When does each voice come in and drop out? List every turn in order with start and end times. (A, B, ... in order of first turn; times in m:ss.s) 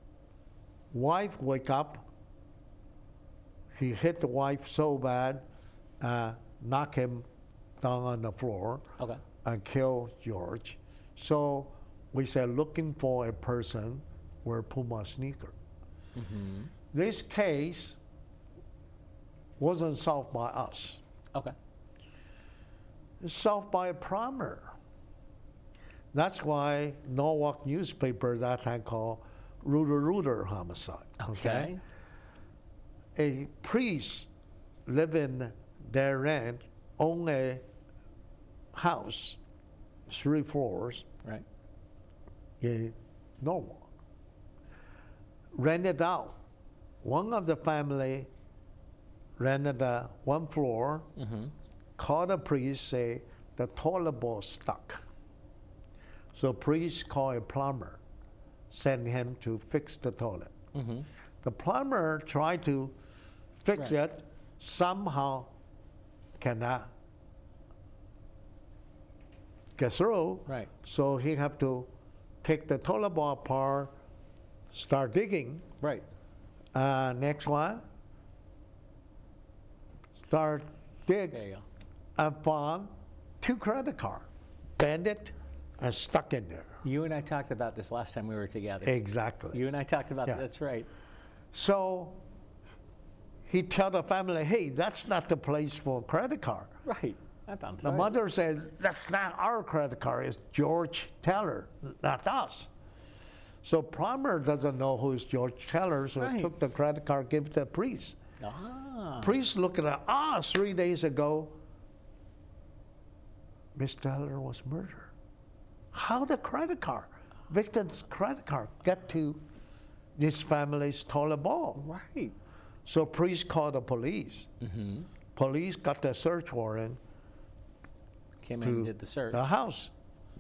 0:00.9-0:02.1 A
0:03.7-0:05.4 A
0:06.0-0:07.3 A
0:07.8-0:08.9 A
0:09.4-0:15.5 A
0:16.2-0:16.7 B
0:16.9-0:18.0 A
0:19.6-0:21.0 A
0:23.2-0:24.7 A
0:26.1-0:31.7 A
0:31.2-0:31.8 B
0:33.2-0:34.3 A
0:34.9-0:37.6 A
0:38.7-0:39.4 A
0:40.1-0:41.1 A
0:42.6-0:43.9 A
0:45.6-0:46.4 A
0:47.0-0:48.3 A
0:49.4-0:51.1 A
0:51.2-0:51.5 B
0:52.0-0:55.0 A
0:56.3-0:58.0 A
0:58.7-1:00.5 A
1:00.7-1:01.1 B
1:01.4-1:03.0 A
1:03.6-1:05.5 A
1:06.4-1:06.9 A
1:09.8-1:11.9 A
1:12.4-1:13.9 A
1:14.7-1:15.7 A
1:16.8-1:17.8 A
1:20.2-1:21.4 A
1:21.3-1:21.6 B
1:22.2-1:24.3 A
1:24.8-1:26.8 A
1:26.8-1:28.9 B
1:28.8-1:29.6 A
1:29.5-1:30.9 B
1:31.5-1:32.2 A
1:33.5-1:36.8 A
1:36.8-1:38.2 B
1:37.8-1:42.7 A
1:43.6-1:48.2 A
1:46.2-1:46.5 B
1:48.4-1:49.3 B
1:49.2-1:51.6 A
1:53.8-1:55.1 A
1:55.9-1:59.4 A
2:00.2-2:01.8 A
2:01.8-2:02.4 B
2:02.9-2:04.5 A
2:04.6-2:05.1 B
2:05.4-2:07.0 A
2:08.4-2:09.5 B
2:08.6-2:09.9 A